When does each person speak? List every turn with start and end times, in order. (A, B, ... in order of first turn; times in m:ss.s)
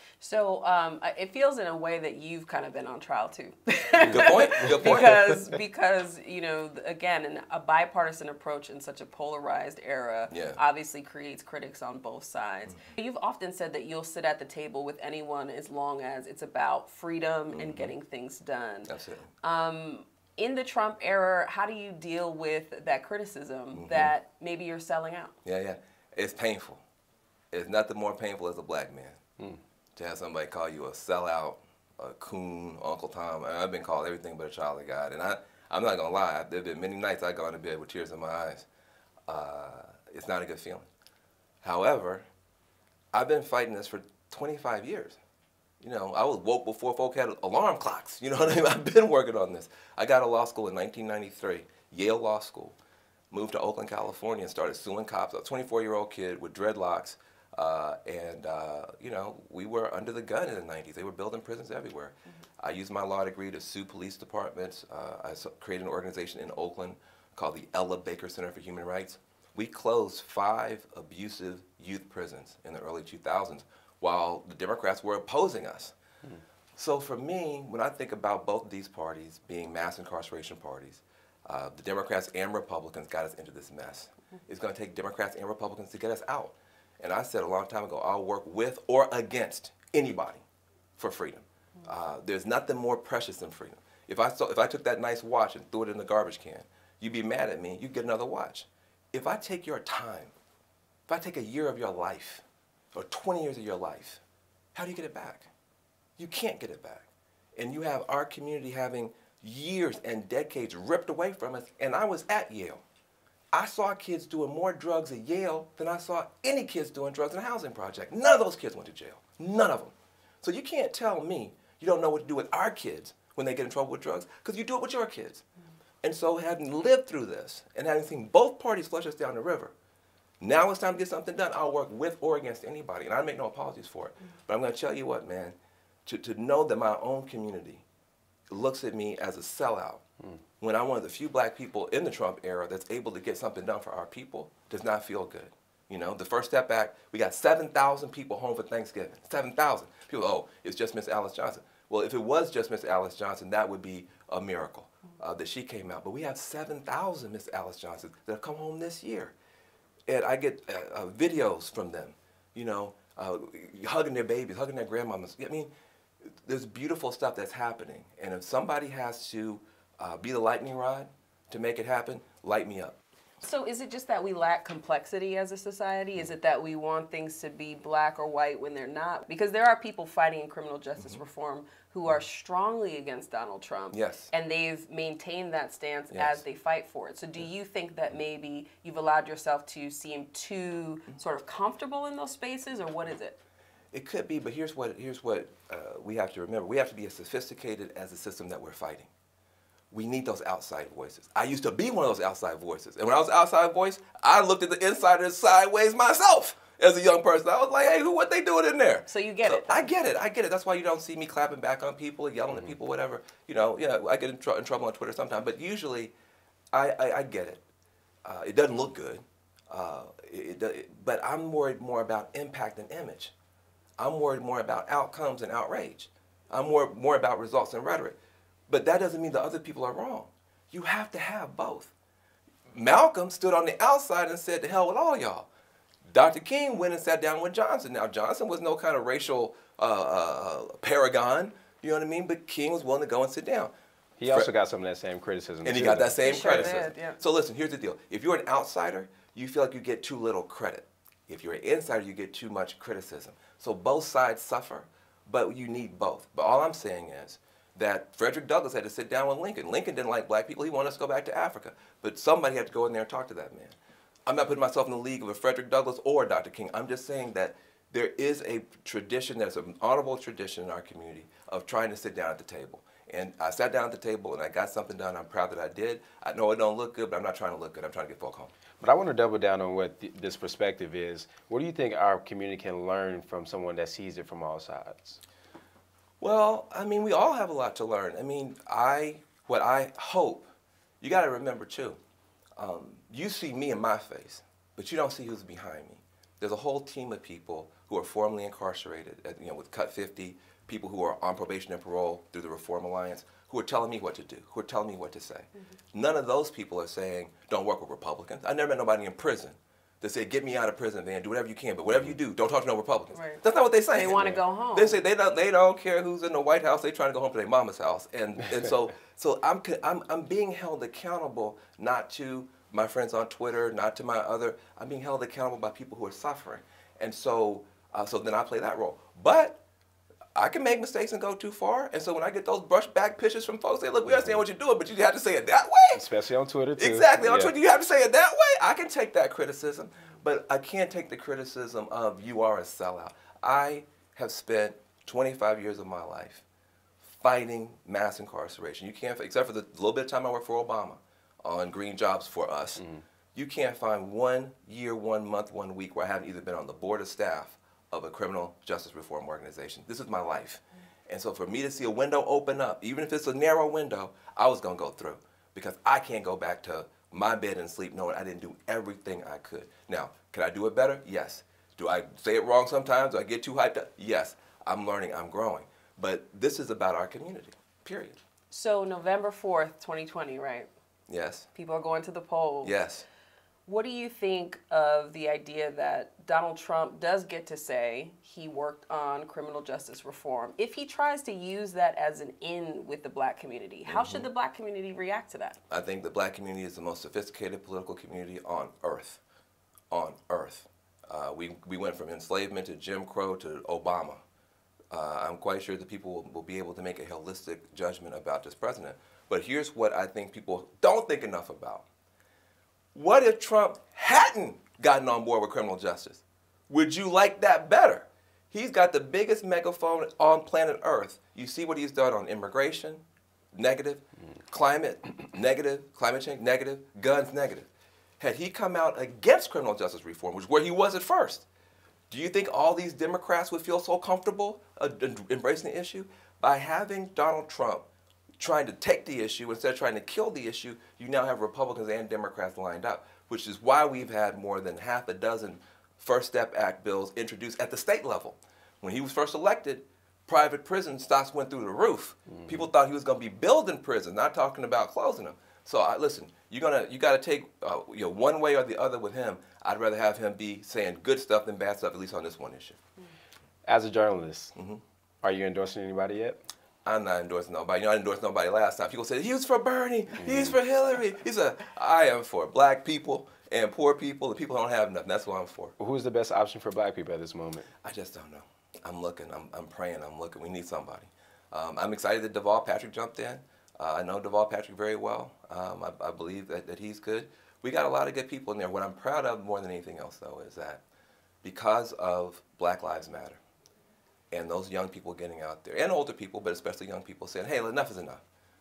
0:00.2-0:18.9 A
0:04.1-0:05.4 B
0:04.1-0:04.7 C
0:10.3-0:10.6 B
0:17.5-0:17.9 B
0:18.9-0:19.3 B
0:19.4-0:25.3 A
0:23.7-0:24.1 B
0:25.4-0:26.8 B
0:27.5-0:29.2 B
0:30.0-0:38.7 B
0:39.3-0:40.9 B
0:41.6-0:42.3 B
0:43.1-0:45.2 B
0:45.8-0:52.8 B
0:53.3-1:15.9 B
1:16.8-1:30.4 B
1:31.0-1:40.3 B
1:41.1-1:44.2 B
1:44.7-1:45.5 B
1:46.2-1:52.8 B
1:53.5-2:05.4 B
2:06.0-2:09.7 B
2:10.4-2:17.8 B
2:18.5-2:20.0 B
2:20.6-2:39.3 B
2:40.1-2:45.7 B
2:46.4-2:53.0 B
2:53.4-3:13.4 A
3:03.9-3:04.3 B
3:06.1-3:06.4 B
3:13.9-3:19.1 B
3:19.9-3:36.1 B
3:29.1-3:29.9 A
3:36.7-3:37.6 B
3:38.2-3:43.3 B
3:44.0-3:48.2 B
3:48.7-3:51.9 B
3:52.7-3:55.5 B
3:56.1-4:03.7 B
4:04.2-4:06.7 C
4:05.6-4:23.8 B
4:06.2-4:07.2 A
4:24.3-4:38.5 B
4:38.8-4:45.2 C
4:46.2-4:50.5 B
4:51.0-4:52.0 B
4:52.6-5:29.6 B
5:13.1-5:15.0 A
5:30.3-5:36.0 B
5:35.9-5:37.5 C
5:36.8-5:46.4 B
5:47.0-5:52.8 B
5:53.3-6:18.2 B
6:18.5-6:20.7 A
6:21.1-6:21.5 B
6:21.5-6:22.7 A
6:22.6-6:23.1 B
6:23.6-6:35.6 A
6:33.9-6:34.3 B
6:35.7-6:39.2 B
6:39.9-6:44.2 B
6:44.9-6:51.8 B
6:52.9-7:07.7 B
7:08.2-7:11.5 B
7:12.1-7:17.8 B
7:18.4-7:42.8 B
7:32.3-7:32.7 C
7:43.6-7:44.6 C
7:44.6-7:44.8 B
7:45.2-7:46.4 C
7:46.8-7:55.7 B
7:55.8-7:57.7 C
7:57.8-8:10.8 B
8:11.4-8:13.4 B
8:14.3-8:18.2 B